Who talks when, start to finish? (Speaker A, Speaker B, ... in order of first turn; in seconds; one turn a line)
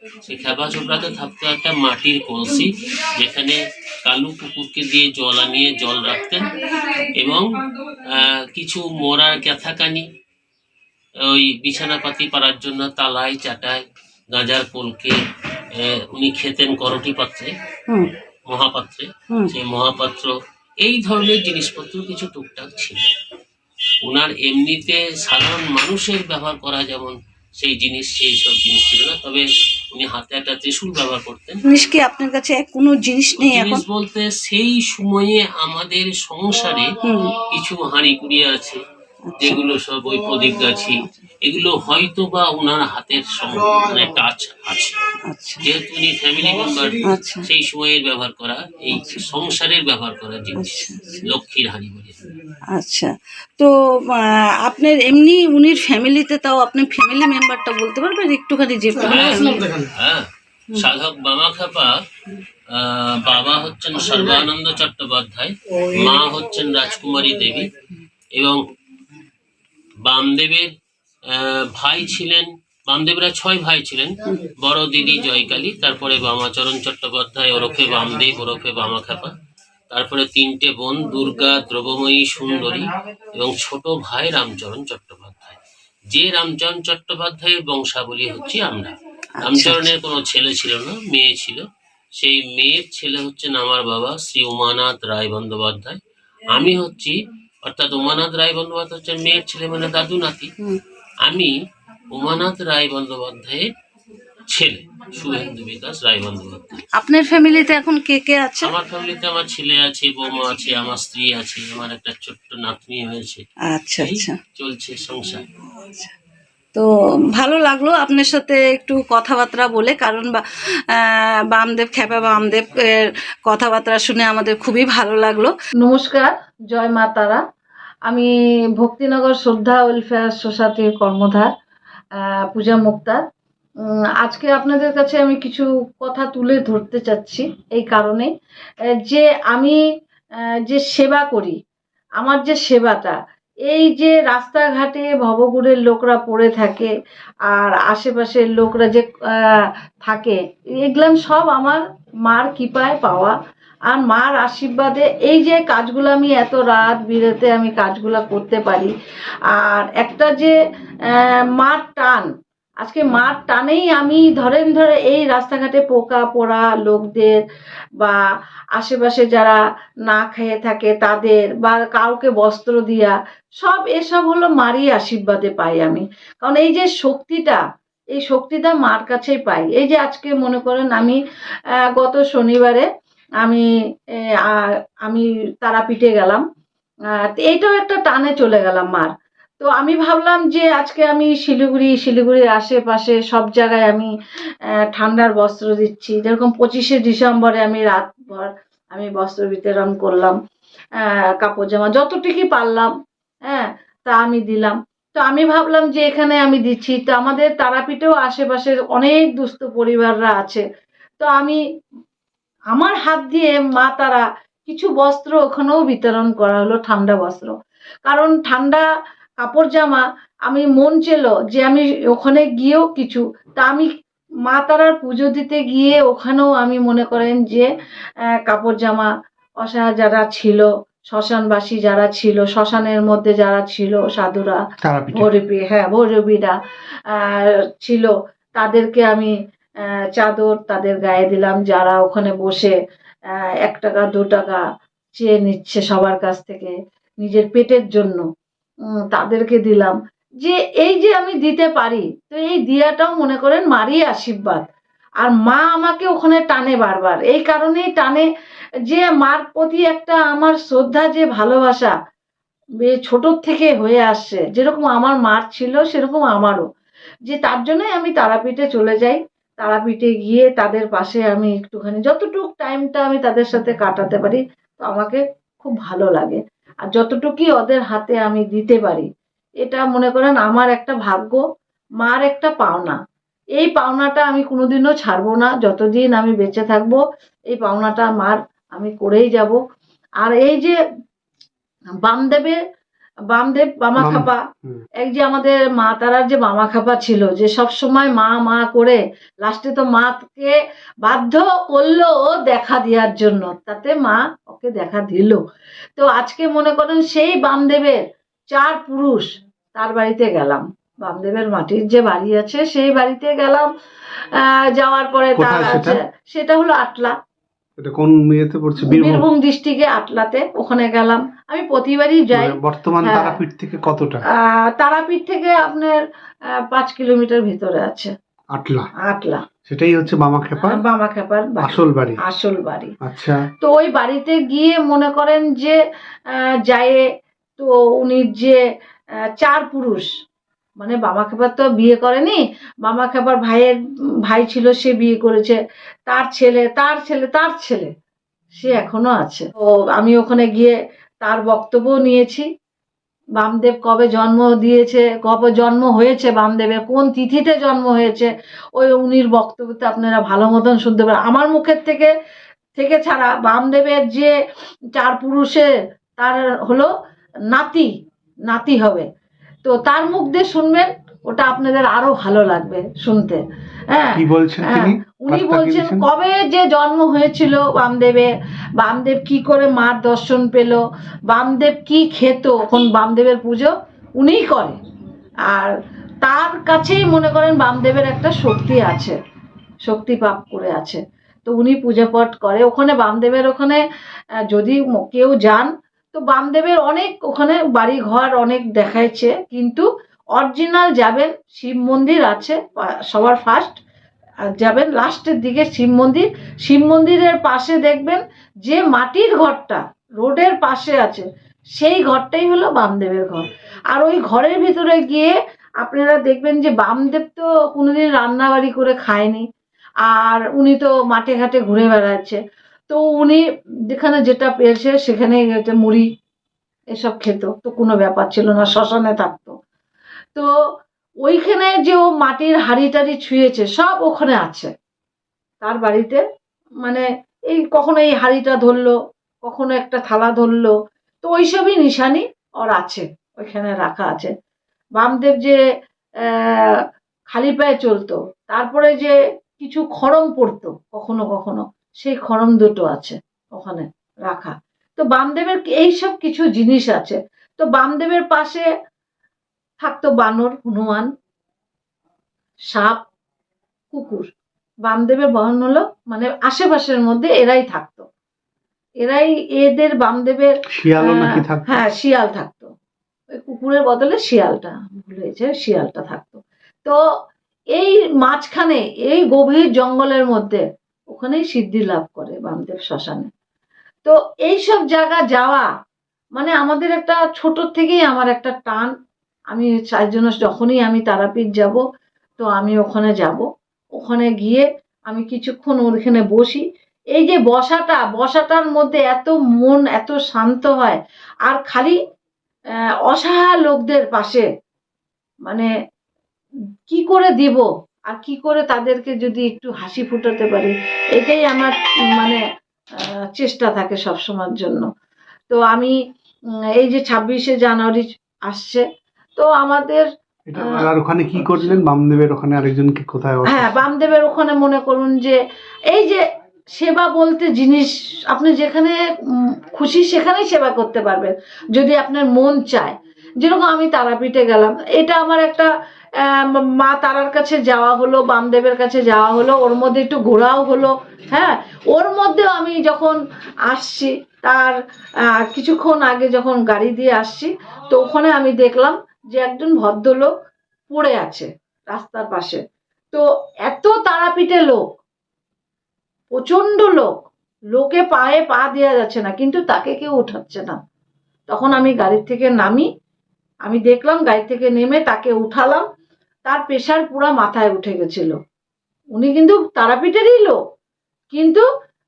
Speaker A: 0.2-10.1
Speaker A: 11.2-15.2
Speaker A: 15.7-17.5
Speaker A: 18.5-20.3
Speaker A: 20.8-23.0
Speaker A: 24.1-31.6
Speaker B: 31.7-33.8
Speaker A: 33.4-36.9
Speaker B: 37.0-37.4
Speaker A: 37.4-38.8
Speaker B: 39.3-39.6
Speaker A: 39.4-45.0
Speaker B: 45.3-45.6
Speaker A: 45.6-52.3
Speaker B: 47.0-47.5
Speaker B: 48.9-49.2
Speaker B: 50.6-51.2
Speaker B: 52.7-59.8
Speaker A: 59.0-62.0
Speaker A: 62.7-67.7
Speaker A: 70.0-70.7
Speaker A: 71.2-79.4
Speaker A: 79.9-85.6
Speaker A: 86.1-91.6
Speaker B: 89.4-89.9
Speaker A: 92.2-96.0
Speaker A: 96.5-100.5
Speaker A: 101.2-101.5
Speaker A: 102.1-103.7
Speaker A: 104.5-106.8
Speaker B: 107.0-108.7
Speaker A: 108.6-113.5
Speaker B: 113.7-114.3
Speaker A: 114.0-115.4
Speaker B: 115.7-116.1
Speaker B: 116.8-120.4
Speaker B: 121.0-127.4
Speaker B: 128.1-131.5
Speaker B: 132.5-133.2
Speaker B: 134.2-138.3
Speaker B: 139.0-139.8
Speaker B: 140.7-141.6
Speaker B: 142.2-146.9
Speaker B: 147.5-153.4
Speaker B: 153.9-158.9
Speaker B: 159.5-160.6
Speaker B: 161.1-162.3
Speaker B: 162.8-167.4
Speaker B: 168.8-177.6
Speaker B: 178.2-181.2
Speaker B: 181.9-182.9
Speaker B: 184.4-186.4
Speaker B: 187.2-194.1
Speaker B: 194.9-200.4
Speaker B: 201.0-202.9
Speaker B: 203.5-210.6
Speaker B: 211.2-211.6
Speaker B: 212.7-217.5
Speaker B: 218.1-218.9
Speaker B: 219.4-223.9
Speaker B: 224.5-227.7
Speaker B: 228.3-229.1
Speaker B: 229.6-236.6
Speaker C: 234.8-235.3
Speaker B: 237.1-239.3
Speaker B: 240.2-242.8
Speaker B: 243.6-244.6
Speaker B: 245.2-248.2
Speaker B: 249.1-254.6
Speaker B: 255.2-258.3
Speaker B: 258.9-261.9
Speaker B: 262.8-266.7
Speaker B: 267.3-279.1
Speaker B: 279.6-281.4
Speaker B: 282.0-283.0
Speaker B: 283.6-289.6
Speaker B: 290.2-290.8
Speaker B: 292.0-292.6
Speaker B: 293.3-294.4
Speaker C: 294.0-294.8
Speaker B: 295.0-305.4
Speaker B: 306.0-313.7
Speaker B: 314.3-317.1
Speaker C: 315.4-316.0
Speaker C: 317.8-319.3
Speaker B: 318.8-323.4
Speaker C: 322.3-324.2
Speaker B: 324.4-326.0
Speaker B: 326.7-328.1
Speaker C: 328.5-328.9
Speaker B: 329.0-329.4
Speaker C: 329.7-330.8
Speaker B: 330.6-332.9
Speaker C: 331.6-332.2
Speaker C: 333.0-333.4
Speaker B: 333.6-335.8
Speaker B: 336.3-337.0
Speaker B: 337.6-338.6
Speaker B: 339.3-340.1
Speaker B: 340.8-347.9
Speaker B: 348.6-352.5
Speaker B: 353.4-362.1
Speaker B: 362.8-364.4
Speaker B: 365.0-366.9
Speaker B: 367.5-367.9
Speaker B: 368.5-369.1
Speaker B: 369.6-384.8
Speaker C: 374.1-376.1
Speaker B: 385.5-389.2
Speaker B: 389.9-393.8
Speaker B: 394.5-403.7
Speaker B: 404.6-419.5
Speaker B: 420.0-426.1
Speaker B: 426.9-429.6
Speaker B: 431.2-434.7
Speaker B: 435.6-436.2
Speaker B: 436.8-444.3
Speaker B: 445.0-445.6
Speaker B: 446.3-446.7
Speaker B: 447.3-458.7
Speaker B: 459.8-461.1
Speaker B: 462.7-463.0
Speaker B: 463.9-464.3
Speaker B: 464.9-468.1
Speaker B: 469.0-472.7
Speaker C: 470.7-471.8
Speaker B: 473.4-477.0
Speaker B: 477.8-483.3
Speaker B: 484.1-485.7
Speaker B: 486.4-488.9
Speaker B: 489.5-491.8
Speaker B: 492.4-493.4
Speaker B: 494.0-502.0
Speaker B: 503.1-504.5
Speaker B: 506.9-512.4
Speaker B: 513.0-514.9
Speaker B: 515.5-516.0
Speaker B: 516.8-518.9
Speaker B: 519.4-520.1
Speaker C: 520.5-523.8
Speaker B: 520.6-520.9
Speaker B: 521.4-521.8
Speaker B: 523.5-525.4
Speaker B: 525.9-526.2
Speaker B: 526.8-529.0
Speaker B: 529.6-535.7
Speaker B: 536.3-543.2
Speaker B: 543.7-544.8
Speaker B: 545.4-550.3
Speaker B: 550.9-552.6
Speaker B: 553.1-554.8
Speaker B: 556.3-557.1
Speaker B: 557.7-560.8
Speaker B: 561.5-562.9
Speaker B: 563.7-565.9
Speaker B: 566.5-568.3
Speaker B: 569.1-570.6
Speaker B: 571.3-571.6